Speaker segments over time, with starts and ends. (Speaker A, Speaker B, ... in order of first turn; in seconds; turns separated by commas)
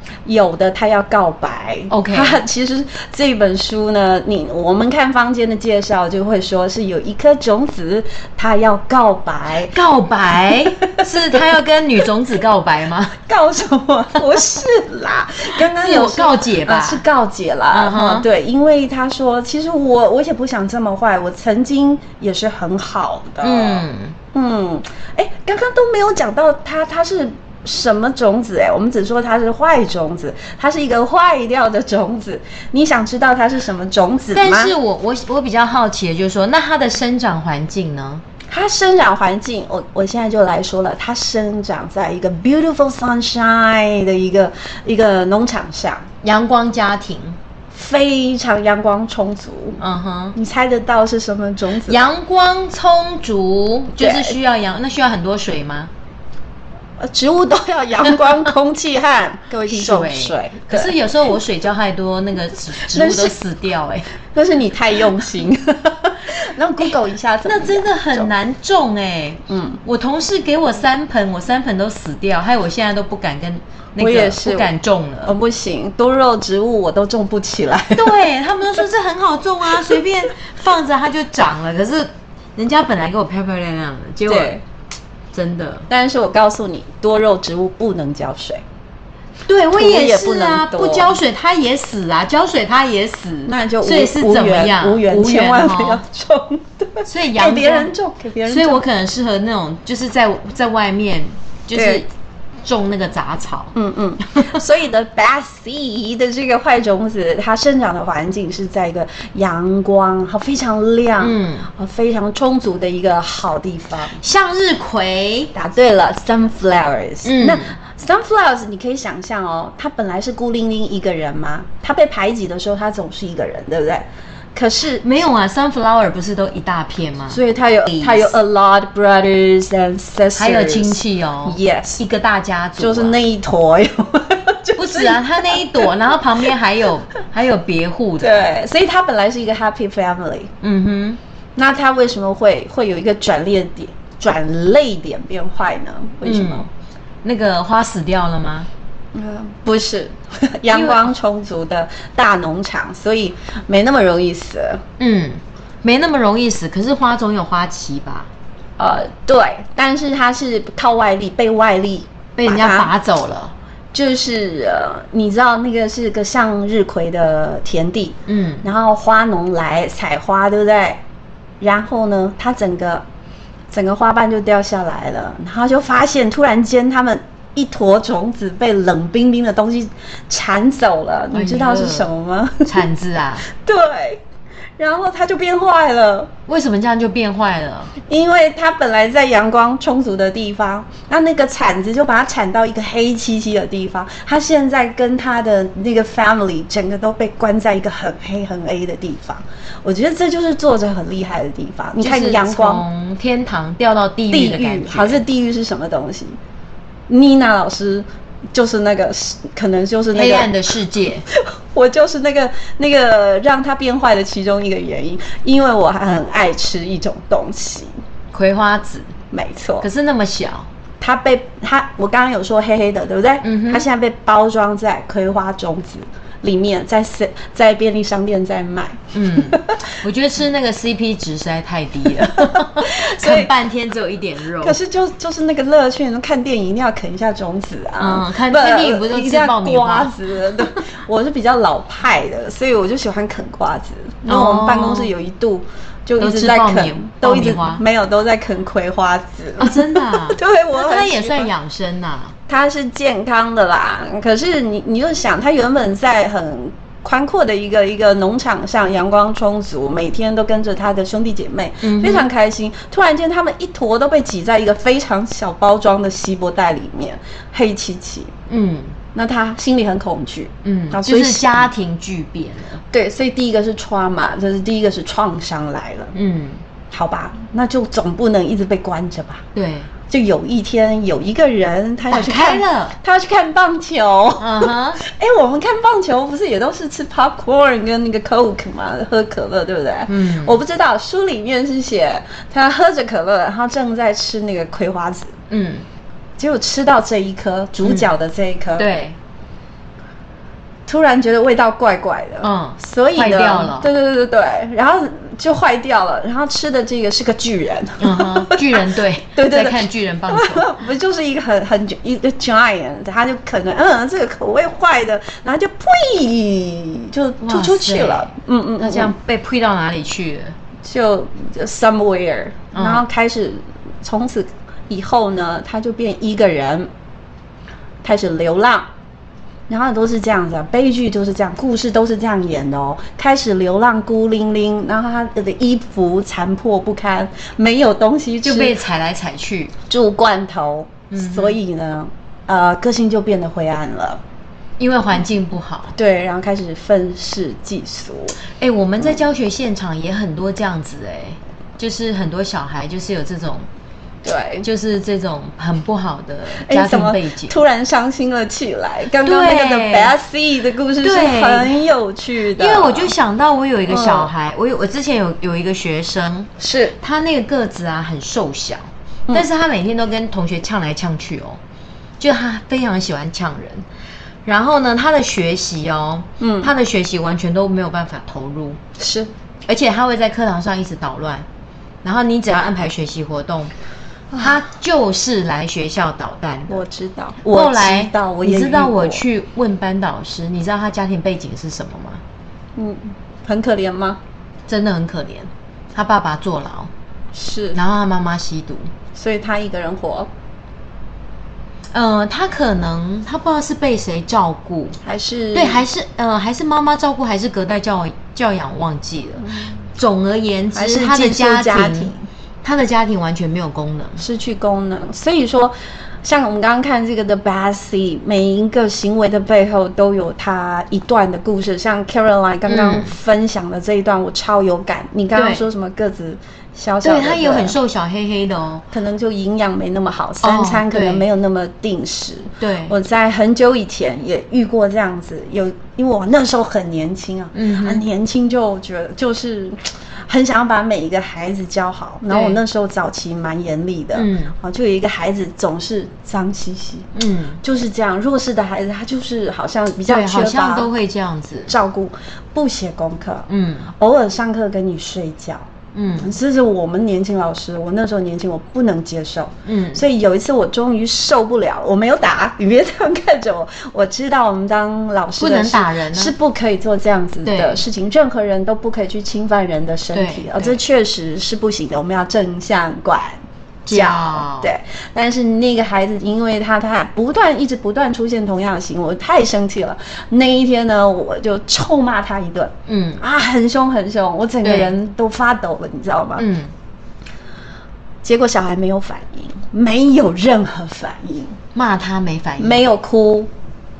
Speaker A: 0.2-9.7, Speaker B: 1.9-2.4, Speaker B: 9.7-13.2, Speaker A: 10.9-11.4, Speaker A: 13.2-34.7, Speaker B: 15.7-17.0, Speaker B: 17.7-18.2, Speaker B: 23.4-24.1, Speaker B: 34.3-38.2, Speaker A: 38.5-46.0, Speaker B: 46.2-47.4, Speaker A: 47.7-49.8, Speaker B: 49.8-50.4, Speaker A: 50.3-52.1, Speaker B: 51.9-55.9, Speaker A: 54.0-54.4, Speaker A: 57.0-60.9, Speaker B: 59.7-64.1, Speaker A: 62.9-63.3, Speaker A: 64.3-68.3, Speaker B: 67.5-75.3, Speaker A: 69.5-69.8, Speaker A: 74.0-74.7, Speaker A: 75.2-78.2, Speaker B: 77.9-84.5, Speaker A: 79.7-80.0, Speaker A: 84.3-84.6, Speaker B: 85.3-85.9, Speaker A: 85.9-88.6, Speaker B: 89.5-96.0, Speaker A: 89.7-91.2, Speaker A: 93.5-98.8, Speaker B: 97.0-97.9, Speaker B: 98.4-102.0, Speaker A: 101.7-102.0, Speaker B: 102.6-103.8, Speaker A: 103.7-114.2, Speaker B: 111.2-111.7, Speaker B: 114.2-115.5, Speaker A: 115.5-125.0, Speaker B: 117.2-117.7, Speaker B: 125.0-127.4, Speaker A: 127.3-132.0, Speaker B: 127.9-128.3, Speaker B: 130.3-133.2, Speaker A: 132.8-135.9, Speaker B: 134.8-138.4, Speaker A: 138.2-140.5, Speaker B: 140.6-141.2, Speaker A: 141.6-146.7, Speaker B: 146.2-146.7, Speaker B: 147.2-148.7, Speaker A: 149.1-154.8, Speaker B: 150.7-151.1, Speaker B: 155.0-158.3, Speaker A: 158.8-162.9, Speaker B: 162.4-163.5, Speaker A: 163.9-171.0, Speaker B: 168.3-168.6, Speaker A: 171.6-173.0, Speaker A: 173.7-182.7, Speaker B: 181.3-182.1, Speaker B: 182.7-183.4, Speaker A: 183.5-184.2, Speaker A: 184.8-186.3, Speaker B: 186.5-187.9, Speaker A: 188.1-202.8, Speaker B: 202.0-205.2, Speaker A: 204.3-206.4, Speaker A: 207.1-210.5, Speaker B: 210.1-211.2, Speaker A: 211.3-217.9, Speaker B: 218.3-219.1, Speaker A: 219.3-219.9, Speaker B: 219.8-220.7, Speaker A: 221.0-229.8, Speaker B: 223.4-223.8, Speaker B: 229.1-234.8, Speaker A: 232.2-233.5, Speaker A: 234.6-251.5, Speaker B: 238.0-240.8, Speaker B: 244.2-245.1, Speaker B: 246.2-247.8, Speaker B: 249.6-252.3, Speaker A: 252.5-268.3, Speaker B: 261.8-262.3, Speaker B: 268.5-268.9, Speaker A: 269.1-271.7, Speaker B: 270.6-272.8, Speaker A: 272.9-276.1, Speaker B: 276.1-276.6, Speaker A: 276.9-279.4, Speaker B: 279.5-279.9, Speaker A: 280.1-295.3, Speaker B: 282.1-282.9, Speaker B: 284.4-285.0, Speaker B: 290.1-290.6, Speaker B: 295.5-295.9, Speaker A: 296.4-298.9, Speaker B: 298.8-299.1, Speaker A: 300.9-319.1, Speaker B: 302.4-303.9, Speaker B: 308.0-310.7, Speaker B: 317.4-320.6, Speaker A: 320.8-326.9, Speaker B: 322.7-323.0, Speaker A: 328.0-328.9, Speaker A: 329.7-338.8, Speaker B: 338.4-339.7, Speaker A: 339.9-344.2, Speaker B: 341.1-341.6, Speaker B: 344.8-345.9, Speaker A: 345.9-348.4, Speaker B: 348.6-353.7, Speaker A: 354.2-354.6, Speaker B: 354.6-357.6, Speaker A: 356.5-363.1, Speaker B: 359.2-360.1, Speaker B: 361.0-361.8, Speaker B: 362.6-371.6, Speaker A: 363.9-364.3, Speaker A: 366.6-367.0, Speaker B: 372.2-373.8, Speaker B: 374.4-378.8, Speaker A: 376.4-376.7, Speaker A: 379.0-379.3, Speaker B: 379.7-381.4, Speaker B: 382.0-383.7, Speaker B: 384.3-386.8, Speaker A: 386.7-389.2, Speaker B: 387.5-392.2, Speaker A: 392.8-394.2, Speaker B: 394.7-396.9, Speaker A: 397.3-397.8, Speaker B: 397.7-398.9, Speaker A: 399.1-400.3, Speaker B: 401.9-405.0, Speaker A: 405.0-405.8, Speaker B: 405.5-414.2, Speaker A: 410.7-412.2, Speaker A: 414.2-427.7, Speaker B: 422.7-423.1, Speaker B: 425.3-425.6, Speaker B: 427.0-428.8, Speaker A: 428.9-447.1, Speaker B: 430.4-431.2, Speaker B: 432.6-432.9, Speaker B: 437.5-438.0, Speaker B: 442.3-442.6, Speaker B: 444.1-444.5, Speaker B: 447.1-447.6, Speaker A: 447.6-450.9, Speaker B: 450.1-451.7, Speaker A: 451.7-453.5, Speaker B: 453.5-453.9, Speaker A: 454.0-486.4, Speaker B: 455.9-456.3, Speaker B: 459.6-460.0, Speaker B: 465.4-466.3, Speaker B: 467.4-467.8, Speaker B: 470.1-470.8, Speaker B: 473.9-474.7, Speaker B: 482.9-483.2, Speaker B: 484.6-484.9, Speaker B: 486.4-486.7, Speaker A: 488.2-491.6, Speaker B: 491.7-492.8, Speaker A: 492.6-493.5